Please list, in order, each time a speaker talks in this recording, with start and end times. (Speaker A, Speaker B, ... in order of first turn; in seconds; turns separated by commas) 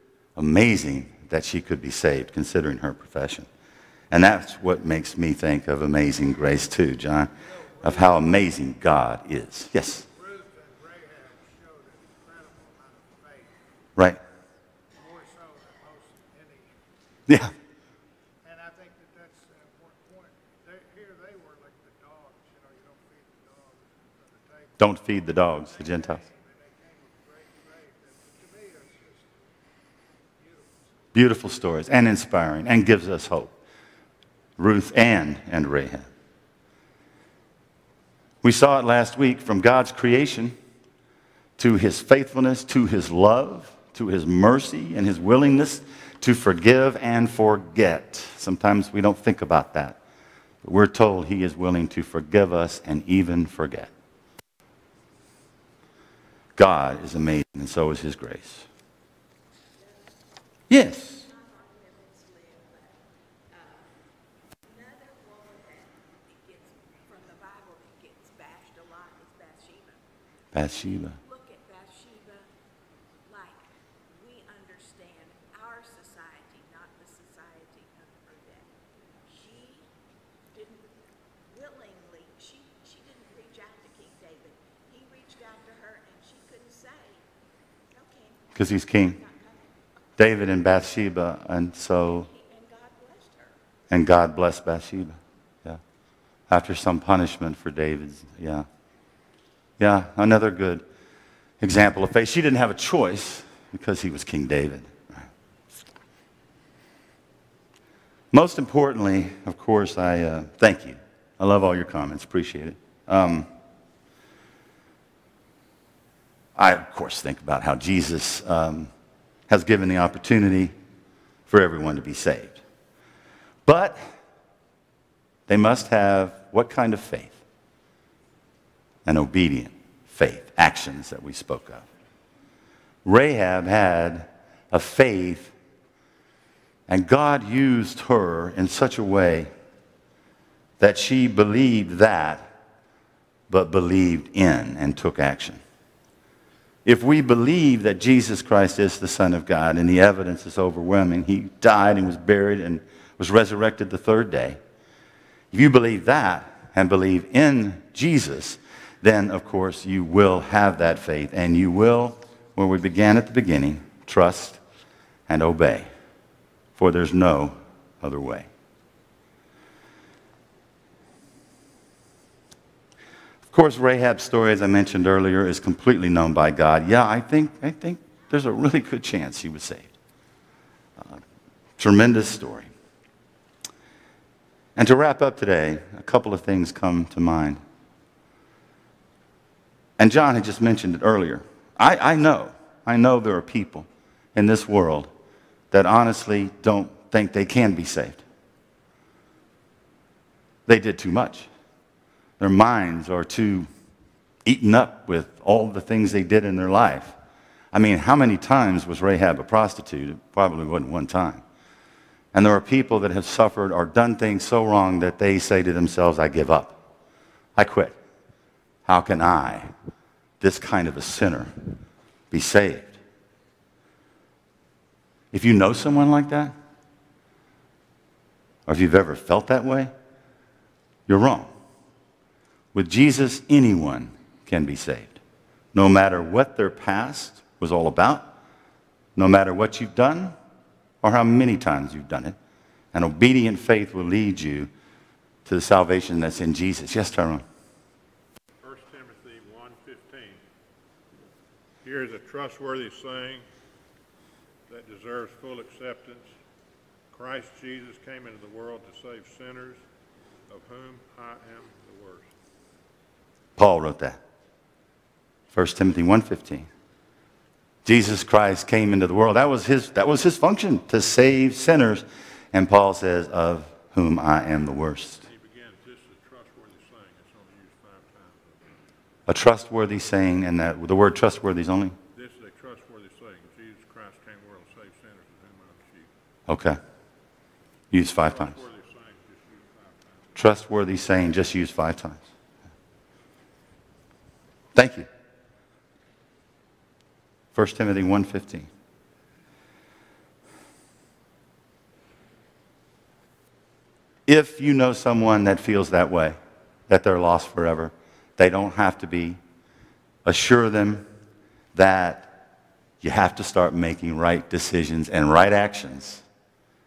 Speaker A: 0.3-3.5, Speaker A: 4.1-10.0, Speaker B: 7.6-8.2, Speaker B: 10.1-13.6, Speaker B: 14.9-16.7, Speaker B: 18.4-29.5, Speaker A: 24.8-26.2, Speaker B: 30.4-31.1, Speaker A: 31.1-33.5, Speaker A: 34.6-36.1, Speaker A: 38.4-40.5, Speaker A: 41.6-50.0, Speaker A: 50.6-53.9, Speaker A: 56.5-58.7, Speaker C: 59.8-60.1, Speaker A: 60.7-61.2, Speaker C: 61.1-63.9, Speaker C: 64.6-70.0, Speaker A: 70.5-71.2, Speaker C: 70.6-72.5, Speaker C: 73.2-78.7, Speaker C: 79.3-79.9, Speaker C: 80.5-80.9, Speaker C: 81.5-87.3, Speaker C: 87.9-89.8, Speaker A: 88.5-89.2, Speaker A: 90.2-92.3, Speaker C: 92.0-93.6, Speaker A: 93.9-95.8, Speaker A: 96.5-98.7, Speaker A: 99.8-100.8, Speaker A: 101.6-105.3, Speaker A: 108.3-113.5, Speaker A: 116.5-118.9, Speaker A: 119.5-120.7, Speaker A: 121.5-122.6, Speaker A: 123.7-124.0, Speaker A: 125.5-127.4, Speaker A: 129.0-131.8, Speaker A: 133.0-135.5, Speaker A: 136.9-139.5, Speaker A: 140.8-142.5, Speaker A: 143.5-145.6, Speaker A: 146.8-154.6, Speaker A: 155.5-164.6, Speaker A: 165.3-165.9, Speaker A: 166.8-168.5, Speaker A: 173.5-179.9, Speaker A: 181.8-182.7, Speaker A: 184.8-187.6, Speaker A: 190.0-195.1, Speaker A: 195.7-198.2, Speaker A: 200.7-201.5, Speaker A: 202.4-203.7, Speaker A: 204.4-207.1, Speaker A: 207.7-211.4, Speaker A: 212.3-216.8, Speaker A: 217.6-217.9, Speaker A: 218.8-219.7, Speaker A: 220.4-221.5, Speaker A: 222.3-222.9, Speaker A: 225.3-226.5, Speaker A: 228.7-229.9, Speaker A: 231.1-231.5, Speaker A: 232.7-235.2, Speaker A: 235.7-238.3, Speaker A: 239.2-240.3, Speaker A: 241.0-242.3, Speaker A: 242.9-244.7, Speaker A: 245.4-247.4, Speaker D: 248.6-250.4, Speaker D: 251.8-253.4, Speaker D: 254.7-256.3, Speaker D: 257.1-259.8, Speaker D: 260.5-262.3, Speaker A: 263.6-264.2, Speaker A: 265.5-266.7, Speaker A: 267.8-275.2, Speaker D: 275.2-278.6, Speaker A: 279.3-281.9, Speaker D: 282.1-286.1, Speaker A: 286.5-286.8, Speaker A: 287.9-288.6, Speaker D: 288.2-290.3, Speaker A: 290.3-292.2, Speaker A: 294.7-295.1, Speaker A: 297.5-298.7, Speaker A: 304.3-306.4, Speaker A: 306.9-309.4, Speaker A: 310.2-311.0, Speaker A: 311.7-312.3, Speaker A: 313.0-316.2